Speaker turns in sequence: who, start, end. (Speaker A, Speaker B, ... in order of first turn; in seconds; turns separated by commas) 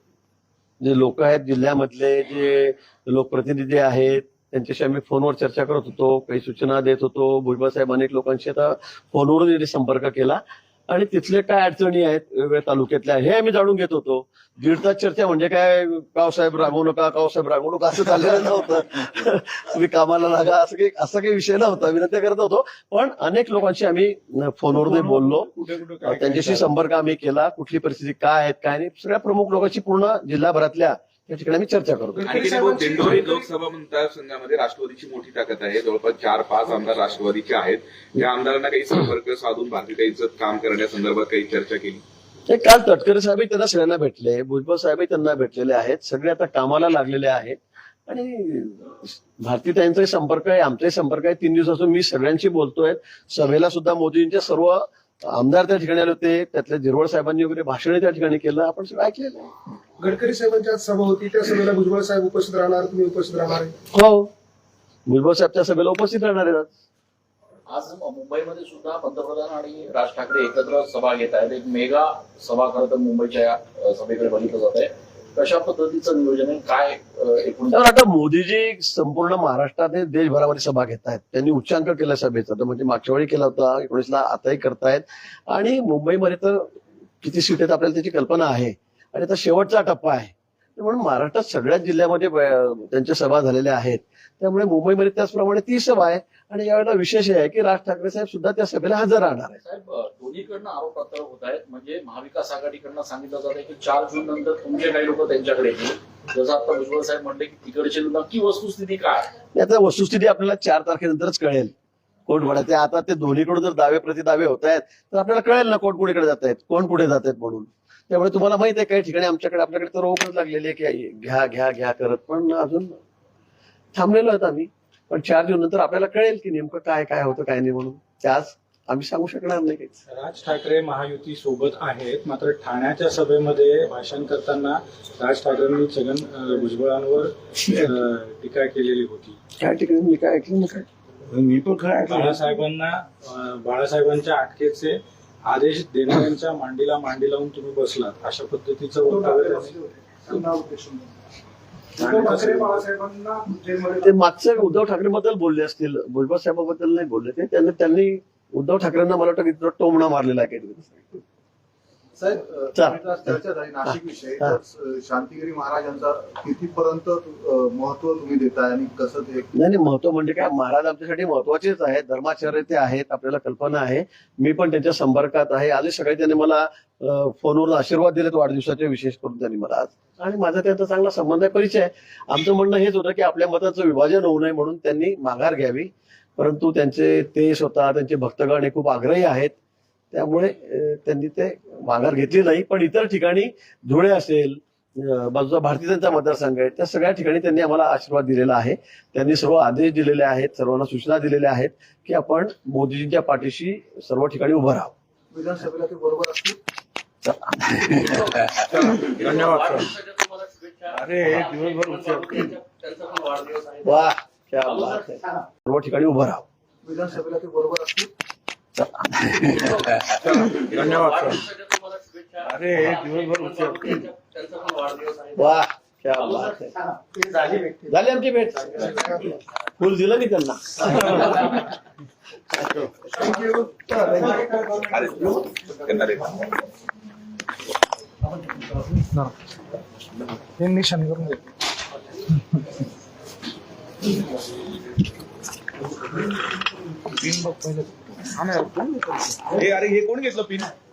Speaker A: 0.8-25.5, Speaker B: 24.7-26.7, Speaker A: 26.0-32.4, Speaker C: 32.2-33.5, Speaker D: 32.2-42.0, Speaker A: 42.5-59.5, Speaker C: 60.0-63.7, Speaker A: 63.9-64.3, Speaker A: 65.1-66.7, Speaker E: 67.7-77.8, Speaker A: 77.7-99.6, Speaker E: 99.6-109.3, Speaker A: 109.5-111.7, Speaker A: 112.3-123.0, Speaker A: 123.9-130.0, Speaker F: 130.1-139.4, Speaker B: 137.7-137.9, Speaker A: 139.6-140.8, Speaker B: 141.3-142.4, Speaker F: 142.0-149.8, Speaker C: 149.1-151.1, Speaker F: 152.0-152.8, Speaker C: 152.0-154.1, Speaker A: 154.0-161.2, Speaker G: 162.2-169.5, Speaker A: 162.7-163.3, Speaker A: 169.6-189.5, Speaker A: 190.1-204.9, Speaker G: 205.3-206.6, Speaker A: 207.2-208.2, Speaker E: 208.7-214.1, Speaker B: 208.8-209.9, Speaker B: 210.9-212.5, Speaker A: 213.8-216.4, Speaker E: 214.6-215.2, Speaker G: 216.8-218.1, Speaker A: 218.8-219.8, Speaker B: 220.0-221.4, Speaker E: 220.4-225.6, Speaker B: 222.4-224.0, Speaker A: 225.3-226.7, Speaker E: 226.2-226.6, Speaker C: 227.3-227.9, Speaker A: 227.9-231.6, Speaker C: 228.7-229.3, Speaker A: 232.5-232.9, Speaker A: 233.9-234.5, Speaker D: 234.9-236.4, Speaker C: 240.8-241.3, Speaker D: 248.3-248.8, Speaker B: 248.7-249.4, Speaker D: 249.5-250.7